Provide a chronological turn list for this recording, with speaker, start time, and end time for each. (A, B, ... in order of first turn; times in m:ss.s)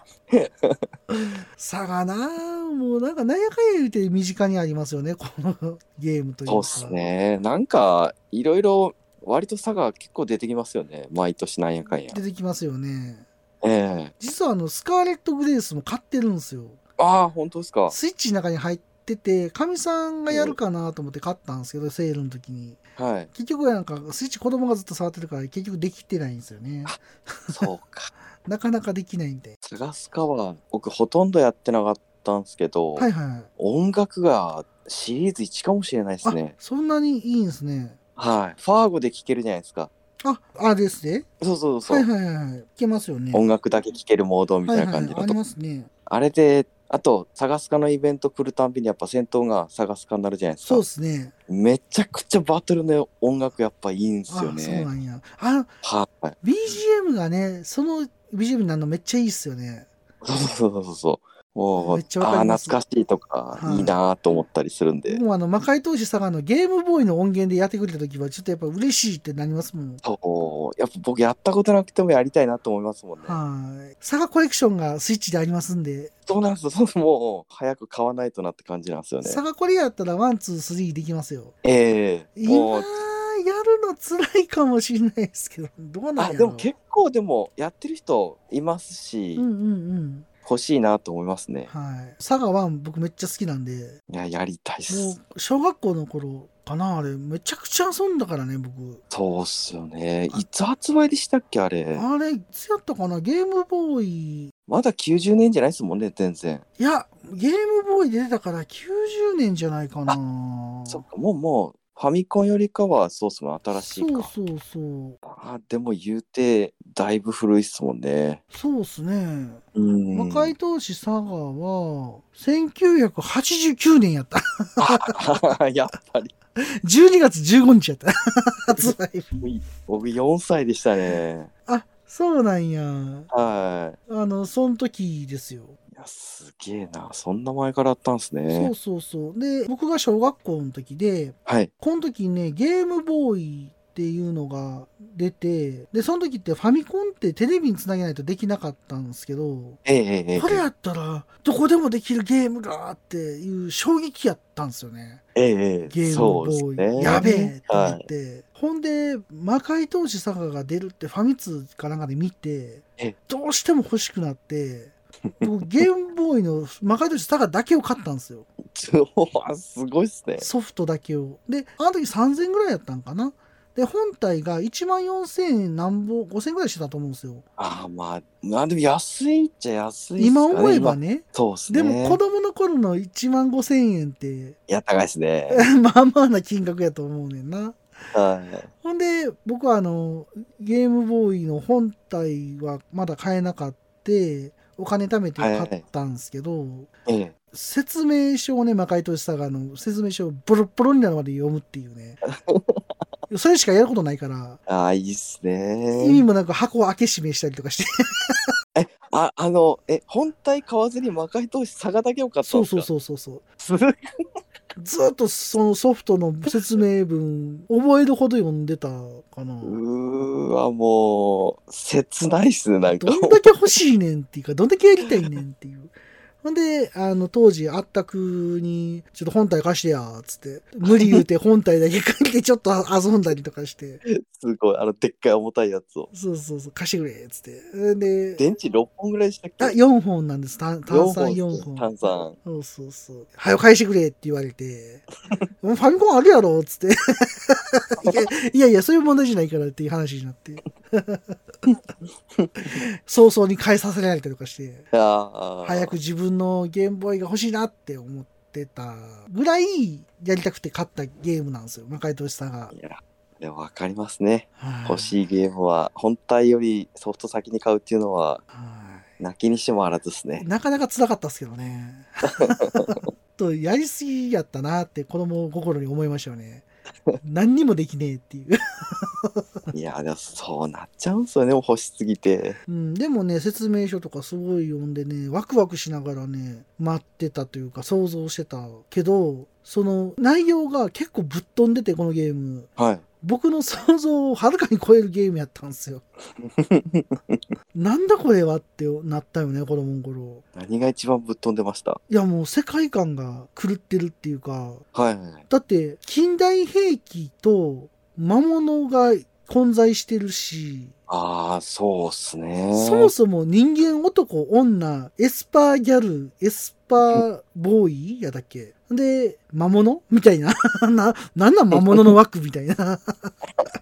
0:00.3-0:00.9 A
0:01.1-0:07.0 B
0:06.5-0:12.2 A
0:12.1-0:13.3 B
0:13.6-0:14.1 A
0:14.2-0:16.8 B
0:17.0-0:18.0 A
0:17.9-0:22.8 B
0:20.3-0:20.6 A
0:23.0-0:23.3 A
0:23.3-0:27.7 B
0:26.9-0:28.1 A
0:28.5-0:29.6 B
0:29.6-0:36.6 A
0:33.0-0:33.5 B
0:36.2-0:38.0 B
0:38.2-0:39.9 A
0:40.2-0:41.3 B
0:41.4-0:42.1 A
0:41.8-0:43.5 B
0:43.3-0:45.4 A
0:44.7-0:45.9 B
0:46.1-0:50.8 A
0:50.6-0:51.3 B
0:51.5-0:54.9 A
0:54.3-0:55.7 B
0:55.8-0:56.4 A
0:56.4-0:59.9 B
1:00.2-1:05.2 A
1:01.8-1:02.8 B
1:03.5-1:04.0 B
1:05.1-1:10.0 B
1:10.0-1:13.4 A
1:13.2-1:16.1 B
1:16.3-1:19.4 A
1:19.2-1:21.5 B
1:21.6-1:22.9 A
1:22.4-1:26.7 B
1:26.2-1:29.4 A
1:29.4-1:30.3 B
1:30.4-1:31.7 A
1:31.7-1:34.0 B
1:34.1-1:35.2 A
1:34.9-1:39.0 B
1:39.1-1:42.1 A
1:42.0-1:44.5 B
1:44.7-1:46.6 A
1:46.8-1:51.0 B
1:50.9-1:54.3 A
1:53.8-1:55.2 B
1:55.2-1:58.4 A
1:58.5-1:59.6 B
1:59.8-2:00.6 A
2:00.1-2:05.1 B
2:04.8-2:06.3 A
2:06.6-2:09.4 B
2:08.7-2:11.5 A
2:11.7-2:13.3 B
2:13.3-2:14.0 A
2:14.1-2:15.8 B
2:15.9-2:18.7 A
2:18.5-2:29.8 B
2:21.5-2:21.7 A
2:29.8-2:30.7 A
2:30.3-2:35.2 B
2:35.4-2:38.1 A
2:35.9-2:48.5 B
2:48.7-2:50.5 A
2:50.4-2:57.4 B
2:57.6-3:02.2 A
3:00.2-3:04.6 B
3:04.7-3:05.7 A
3:05.5-3:07.8 B
3:08.1-3:08.7 A
3:08.8-3:16.9 B
3:15.4-3:15.8 A
3:17.1-3:17.3 A
3:17.5-3:22.2 B
3:22.5-3:22.8 A
3:23.3-3:24.6 B
3:24.7-3:26.2 A
3:26.0-3:28.5 B
3:28.8-3:32.9 A
3:32.4-3:33.4 B
3:33.6-3:34.1 A
3:34.8-3:39.8 B
3:39.6-3:43.5 A
3:43.0-3:54.0 B
3:50.9-3:51.2 A
3:54.1-3:56.1 A
3:56.1-3:58.4 B
3:58.4-3:59.8 A
3:59.6-4:01.9 B
4:00.9-4:02.4 A
4:02.4-4:05.1 B
4:05.6-4:11.4 B
4:12.6-4:14.9 B
4:14.9-4:16.0 A
4:15.6-4:22.7 B
4:22.7-4:28.4 A
4:24.6-4:25.2 B
4:28.5-4:29.1 B
4:29.2-4:30.5 A
4:30.4-4:36.7 B
4:32.4-4:33.0 A
4:37.2-4:39.4 B
4:39.7-4:42.6 A
4:42.7-4:52.7 B
4:52.8-4:53.0 A
4:53.2-4:56.0 B
4:56.4-4:57.4 A
4:57.7-5:00.4 B
5:00.6-5:02.0 A
5:02.1-5:04.8 B
5:04.9-5:05.4 A
5:05.5-5:10.9 B
5:11.1-5:13.1 A
5:12.7-5:23.3 B
5:21.7-5:22.0 A